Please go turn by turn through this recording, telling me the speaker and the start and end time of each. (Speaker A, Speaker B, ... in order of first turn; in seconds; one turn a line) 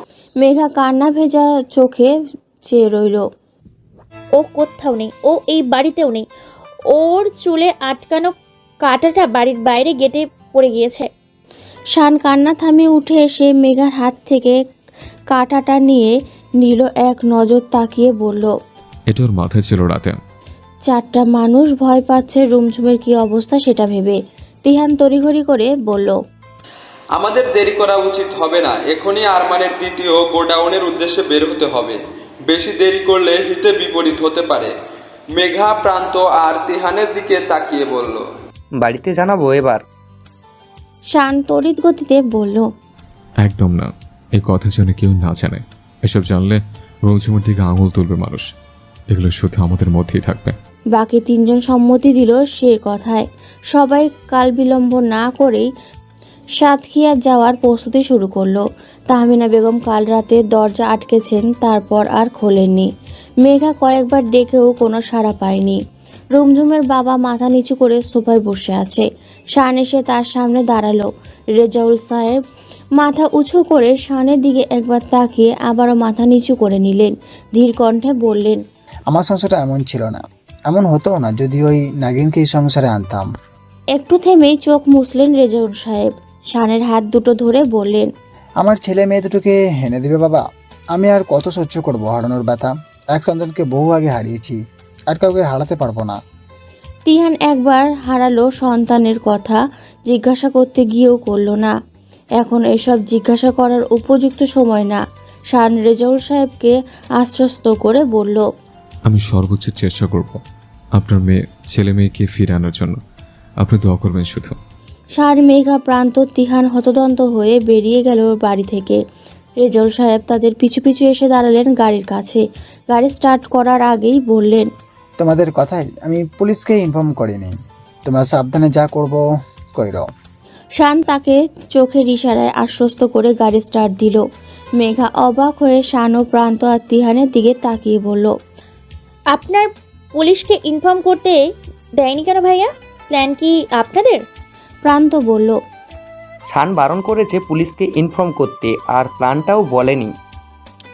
Speaker A: 0.4-2.1
Speaker A: 2.7-3.2
Speaker B: 4.3-6.2
Speaker B: 6.9-11.1
Speaker A: 11.9-14.6
Speaker A: 15.3-18.5
Speaker C: 19.1-20.2
Speaker A: 20.9-26.2
Speaker D: 27.1-34.7
Speaker D: 35.3-38.2
Speaker E: 38.8-39.8
Speaker A: 41.1-42.6
Speaker C: 43.4-48.4
Speaker C: 49.1-50.5
Speaker A: 51.0-55.6
Speaker A: 56.6-62.9
Speaker A: 63.4-65.8
Speaker A: 66.3-72.4
Speaker A: 73.0-78.6
Speaker F: 79.1-83.3
Speaker A: 83.9-88.1
Speaker F: 88.6-90.4
Speaker F: 90.9-94.6
Speaker F: 95.1-96.2
Speaker A: 97.1-101.7
Speaker A: 102.4-105.0
Speaker A: 105.5-108.4
Speaker C: 109.1-110.4
Speaker C: 110.9-113.0
Speaker C: 113.6-114.6
Speaker A: 115.2-119.0
Speaker A: 119.6-124.7
Speaker F: 125.2-127.5
Speaker F: 128.1-129.2
Speaker F: 129.8-130.1
Speaker A: 130.8-134.2
Speaker A: 134.8-138.3
Speaker B: 139.3-141.4
Speaker B: 142.0-144.2
Speaker A: 144.8-145.6
Speaker E: 146.5-150.1